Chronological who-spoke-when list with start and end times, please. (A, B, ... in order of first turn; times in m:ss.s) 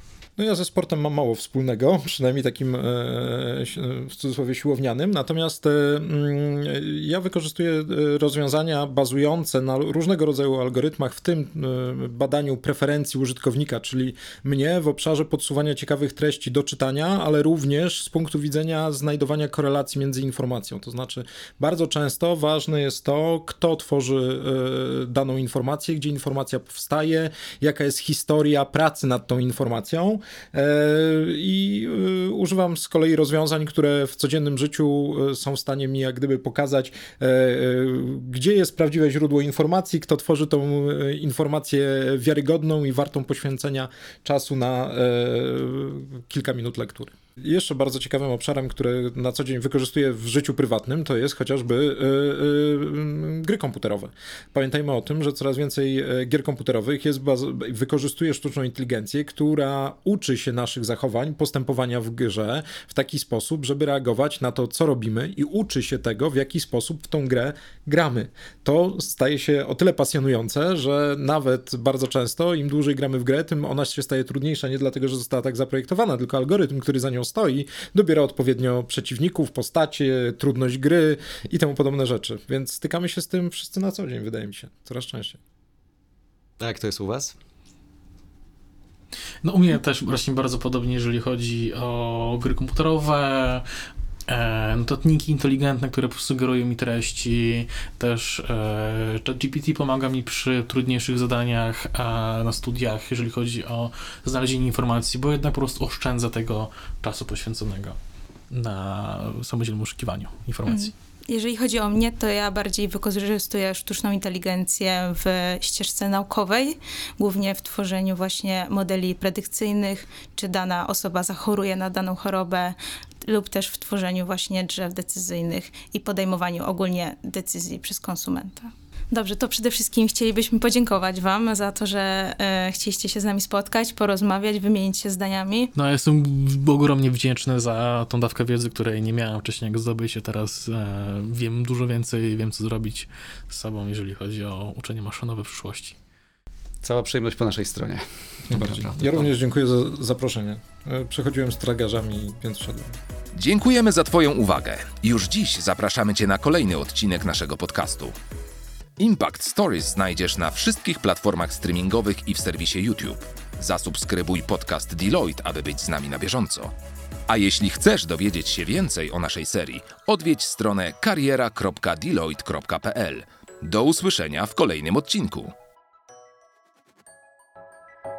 0:00.4-1:25.4 A
1:26.6-1:27.4 B
1:29.4-1:33.6 C
1:34.3-1:48.0 C
1:48.5-1:50.9 C
1:50.7-2:15.7 D
2:15.8-2:26.0 C
2:26.8-2:29.3 B
2:28.5-2:33.0 A
2:33.3-2:38.1 E
2:39.0-2:46.7 E
2:47.3-2:55.5 E